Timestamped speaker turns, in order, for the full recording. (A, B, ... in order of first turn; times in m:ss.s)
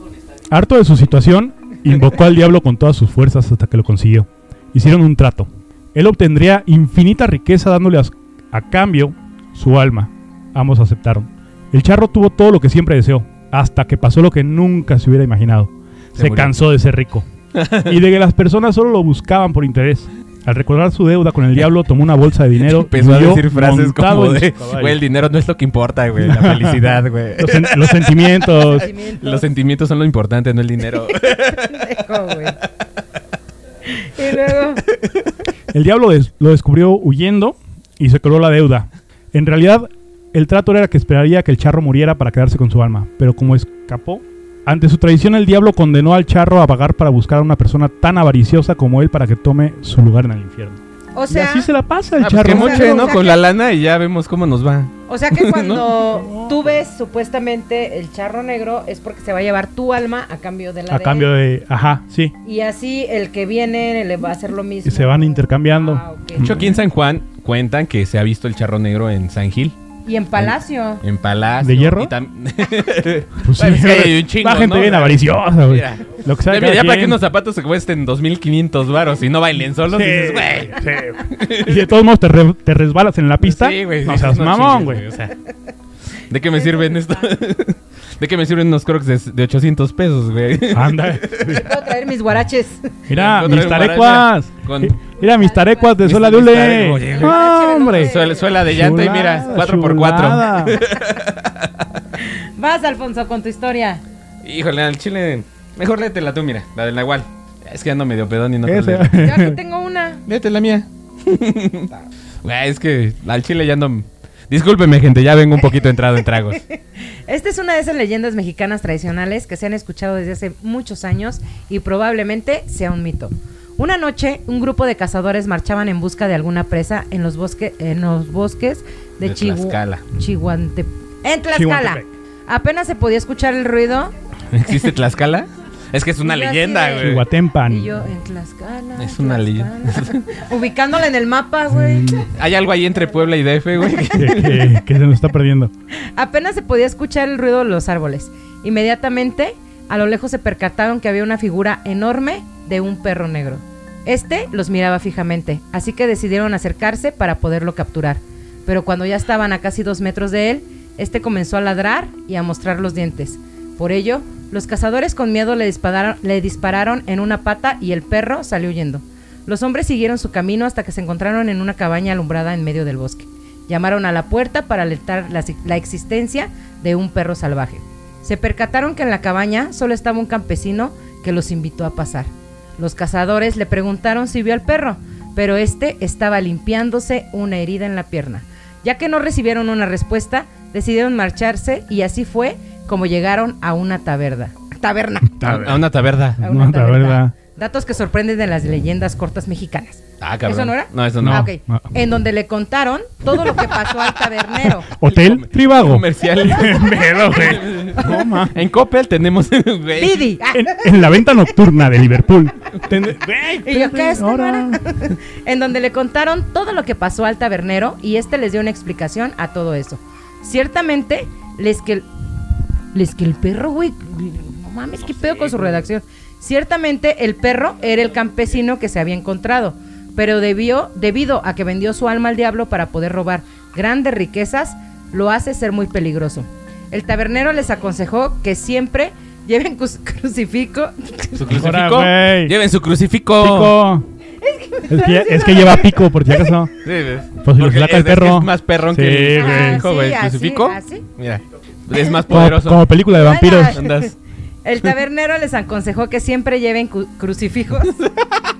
0:00.5-0:17.2 A
0:16.1-0:16.5 B
0:17.5-0:18.0 B
0:17.8-0:25.0 A
0:22.7-0:32.0 B
0:26.2-0:28.9 A
0:28.6-0:29.4 C
0:31.4-0:32.6 C
0:33.8-0:34.8 C
0:35.7-0:53.2 A
0:51.1-0:51.7 C
0:52.2-0:56.0 B
0:52.4-0:53.4 C
0:55.1-1:01.3 C
0:56.1-0:56.7 A
1:00.9-1:02.3 A
1:02.4-1:06.7 C
1:04.8-1:06.8 A
1:06.4-1:09.8 B
1:10.0-1:11.0 C
1:10.4-1:20.8 B
1:11.6-1:12.1 A
1:13.4-1:17.2 A
1:19.9-1:25.0 A
1:21.3-1:21.8 B
1:23.4-1:25.4 B
1:26.2-1:31.6 B
1:26.6-1:27.2 C
1:30.7-1:31.7 A
1:31.5-1:32.9 C
1:33.1-1:40.8 A
1:33.1-1:35.0 B
1:35.2-1:36.0 C
1:36.0-1:41.7 B
1:37.0-1:39.4 C
1:42.2-1:44.0 C
1:44.4-1:49.3 B
1:48.6-1:49.6 A
1:49.2-1:50.2 C
1:50.2-1:51.9 B
1:52.4-1:56.6 B
1:56.6-2:14.1 C
2:09.2-2:10.0 B
2:11.5-2:12.0 A
2:14.5-2:17.2 B
2:16.2-2:22.2 C
2:17.0-2:17.9 A
2:19.0-2:20.2 B
2:21.7-2:22.3 A
2:22.3-2:24.8 B
2:24.1-2:25.7 A
2:26.1-3:15.7 C
3:15.4-3:15.8 A
3:15.4-3:16.4 B
3:16.4-3:17.3 A
3:16.4-3:24.9 C
3:20.2-3:21.5 B
3:21.2-3:21.8 A
3:24.9-3:28.6 A
3:25.0-3:30.3 B
3:30.0-3:30.8 C
3:30.5-3:34.8 A
3:33.6-3:42.1 C
3:42.9-4:01.6 C
3:45.2-3:45.7 B
4:01.4-4:03.8 B
4:01.5-4:02.5 A
4:03.4-4:04.1 A
4:04.4-4:06.5 C
4:04.9-4:06.7 A
4:06.8-4:12.9 B
4:07.4-4:09.8 A
4:09.3-4:11.0 C
4:12.3-4:13.8 A
4:13.1-4:14.1 C
4:13.7-4:14.1 B
4:14.6-4:18.0 C